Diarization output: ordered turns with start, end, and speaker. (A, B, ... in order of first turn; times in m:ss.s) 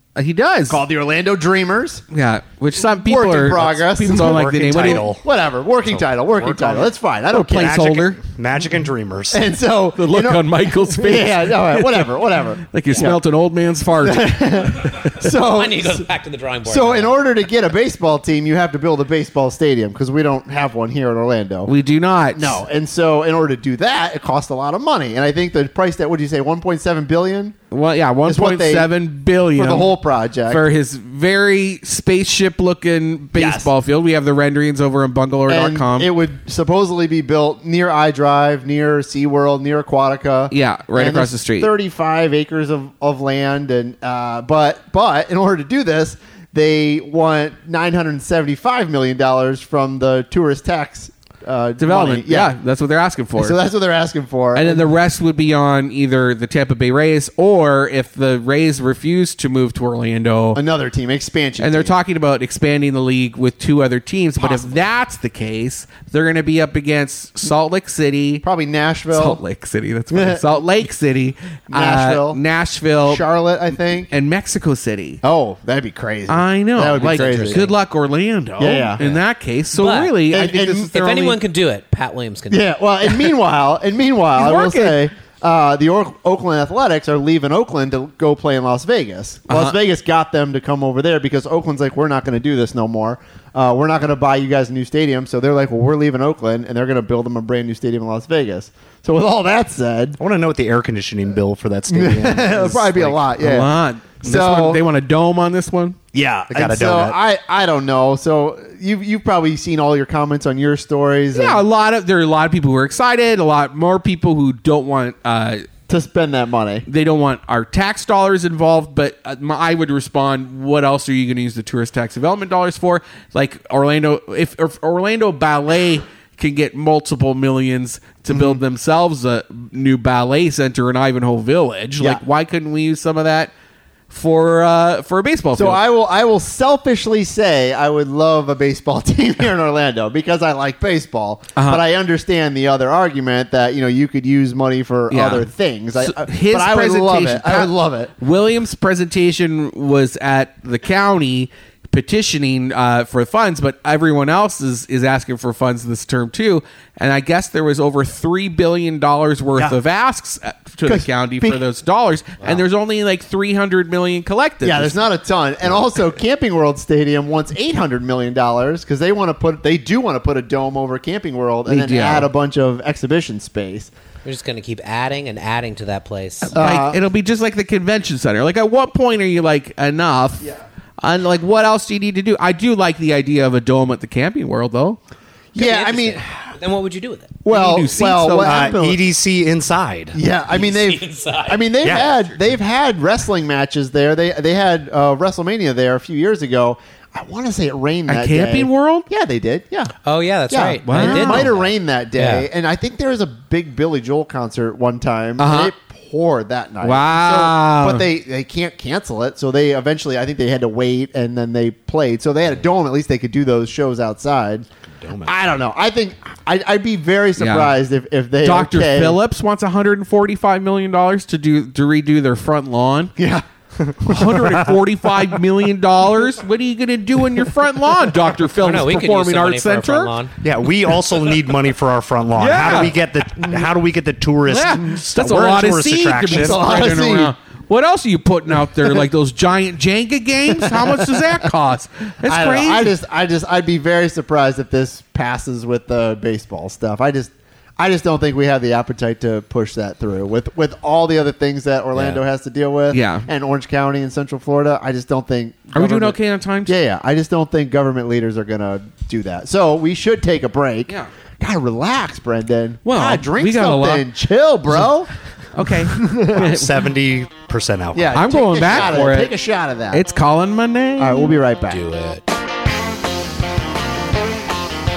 0:00.2-0:00.8 A
0:00.7-0:02.0 B
0:02.1-0:05.1 A
0:02.8-0:07.9 B
0:04.1-0:05.2 C
0:05.8-0:06.9 C
0:07.3-0:08.2 A
0:07.5-0:09.5 C
0:09.3-0:13.2 B
0:10.0-0:12.1 A
0:12.7-0:15.1 A
0:12.8-0:13.1 D
0:14.0-0:16.1 B
0:15.2-0:17.2 D
0:16.6-0:21.7 B
0:21.7-0:22.6 A
0:22.3-0:27.5 B
0:27.7-0:29.9 A
0:28.2-0:28.9 B
0:29.5-0:30.6 B
0:30.5-0:36.1 A
0:33.3-0:33.7 B
0:35.5-0:52.5 B
0:40.5-0:41.7 A
0:51.8-0:53.6 A
0:53.4-0:54.8 B
0:54.5-1:00.6 A
1:00.5-1:01.9 B
1:01.6-1:08.4 A
1:04.4-1:04.8 B
1:08.4-1:09.4 B
1:09.1-1:13.2 A
1:10.1-1:10.4 B
1:11.7-1:12.4 B
1:13.0-1:14.1 B
1:14.1-1:15.2 A
1:15.2-1:17.7 B
1:16.3-1:21.4 A
1:17.0-1:17.8 D
1:18.6-1:19.0 B
1:19.7-1:20.2 D
1:20.3-1:20.9 B
1:20.9-1:22.7 D
1:22.5-1:40.2 B
1:24.4-1:25.0 A
1:29.5-1:29.8 A
1:40.2-1:43.3 C
1:41.9-1:43.7 B
1:43.4-1:46.0 A
1:44.2-1:44.8 B
1:46.1-1:51.6 B
1:46.5-1:47.2 C
1:51.3-1:55.7 A
1:55.9-1:56.8 B
1:56.9-2:13.5 A
2:08.3-2:08.6 B
2:14.1-2:15.8 A
2:15.5-2:28.1 B
2:21.6-2:21.8 A
2:25.1-2:45.0 A
2:40.8-2:41.6 B
2:44.6-2:53.9 B
2:51.7-2:52.3 A
2:54.2-2:56.6 D
2:56.4-3:05.0 A
2:56.6-2:57.0 B
3:05.5-3:06.5 B
3:05.6-3:07.4 D
3:07.4-3:09.0 B
3:07.5-3:08.7 A
3:08.4-3:10.2 C
3:10.1-3:19.9 B
3:10.5-3:12.2 D
3:11.8-3:12.1 C
3:18.1-3:19.1 A
3:20.0-3:22.5 D
3:20.5-3:34.6 B
3:20.8-3:21.5 A
3:25.4-3:25.7 A
3:26.8-3:28.0 A
3:35.2-3:39.2 B
3:37.4-3:37.8 A
3:38.4-3:43.1 A
3:43.2-3:43.4 B
3:43.8-3:44.7 C
3:44.1-3:50.1 A
3:48.6-3:50.3 D
3:50.4-3:56.6 C
3:52.4-3:53.0 A
3:54.5-4:02.9 A
3:56.3-3:57.3 B
4:00.6-4:01.3 B
4:02.2-4:25.1 B
4:12.9-4:13.3 A
4:15.7-4:16.7 A
4:22.8-4:24.1 A
4:24.7-4:24.9 A
4:25.5-4:26.9 A
4:25.9-4:26.5 B
4:26.3-4:29.0 C
4:27.9-4:30.0 B
4:28.1-4:29.3 A
4:29.9-4:31.4 A
4:31.0-4:31.8 B
4:31.7-4:32.2 D